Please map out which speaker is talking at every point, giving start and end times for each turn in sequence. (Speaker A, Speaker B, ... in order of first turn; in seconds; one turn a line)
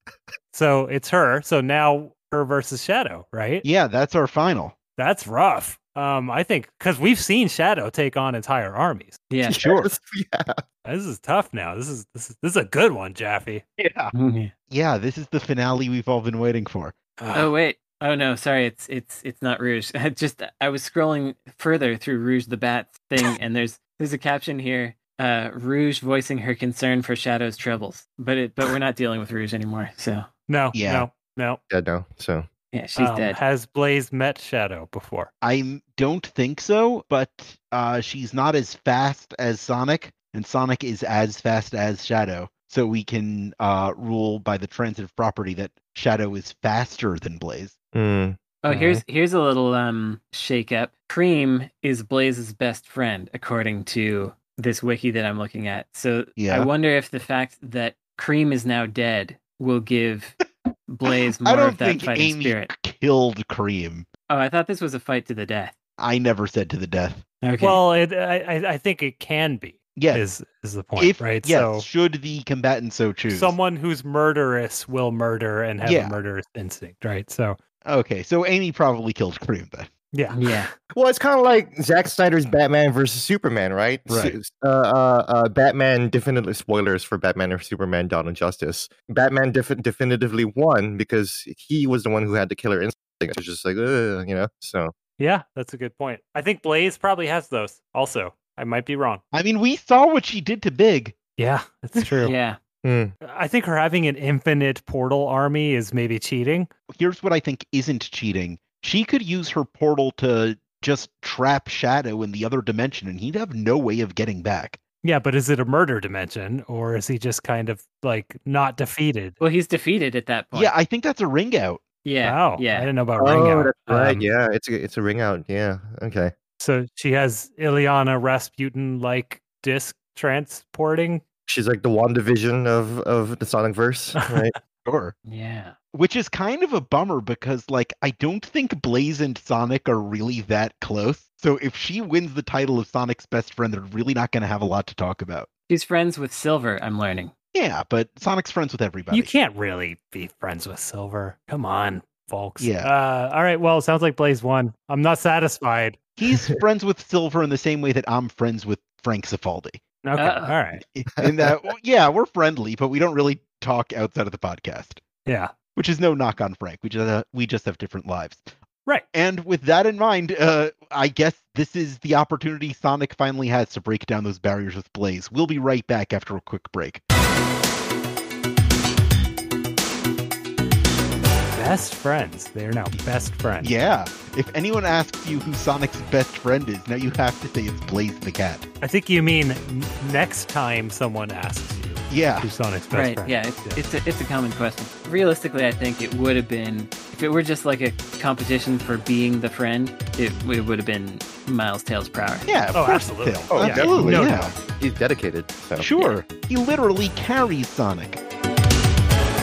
Speaker A: 0.5-3.6
Speaker B: 3.6-4.8
Speaker A: 5.0-9.2
Speaker C: 9.3-9.6
Speaker D: 9.5-10.6
Speaker B: 9.5-9.9
Speaker A: 10.8-13.6
Speaker B: 13.8-14.1
Speaker C: 14.1-14.5
Speaker B: 14.7-16.9
Speaker A: 17.2-17.5
Speaker C: 17.3-30.3
Speaker A: 30.5-31.6
Speaker B: 30.7-31.1
Speaker D: 31.7-32.5
Speaker C: 32.7-33.4
Speaker A: 33.0-35.3
Speaker B: 35.4-47.8
Speaker D: 47.9-49.0
Speaker C: 48.6-60.4
Speaker B: 56.4-56.7
Speaker C: 60.9-62.7
Speaker B: 61.1-64.1
Speaker C: 64.3-65.7
Speaker B: 66.0-67.2
Speaker C: 67.4-67.8
Speaker A: 67.6-71.9
Speaker B: 70.0-70.2
Speaker B: 71.0-73.5
Speaker A: 73.3-77.6
Speaker B: 75.8-76.2
Speaker B: 77.8-79.9
Speaker A: 80.1-80.6
Speaker C: 80.3-80.7
Speaker D: 80.9-94.9
Speaker B: 84.1-84.4
Speaker A: 95.2-99.2
Speaker B: 99.3-101.2
Speaker A: 101.4-102.3
Speaker C: 102.2-102.6
Speaker D: 102.8-103.1
Speaker A: 103.2-106.7
Speaker B: 106.9-114.8
Speaker A: 115.0-119.4
Speaker C: 119.4-120.7
Speaker B: 120.5-121.8
Speaker C: 122.0-122.9
Speaker A: 122.2-124.3
Speaker D: 123.2-126.3
Speaker A: 126.6-131.2
Speaker D: 131.5-134.5
Speaker B: 134.8-135.2
Speaker C: 135.3-135.8
Speaker B: 135.9-145.5
Speaker C: 145.7-147.3
Speaker B: 147.5-149.3
Speaker A: 149.1-156.0
Speaker B: 152.6-152.9
Speaker B: 156.2-159.8
Speaker A: 160.0-160.8
Speaker C: 160.2-160.6
Speaker B: 160.8-165.0
Speaker A: 165.3-165.5
Speaker B: 165.8-168.5
Speaker B: 169.1-177.0
Speaker A: 181.5-183.7
Speaker B: 183.6-188.7
Speaker A: 188.8-193.8
Speaker B: 192.1-192.5
Speaker C: 192.9-202.5
Speaker B: 202.5-204.6
Speaker A: 202.7-204.5
Speaker D: 203.5-205.9
Speaker B: 205.8-208.2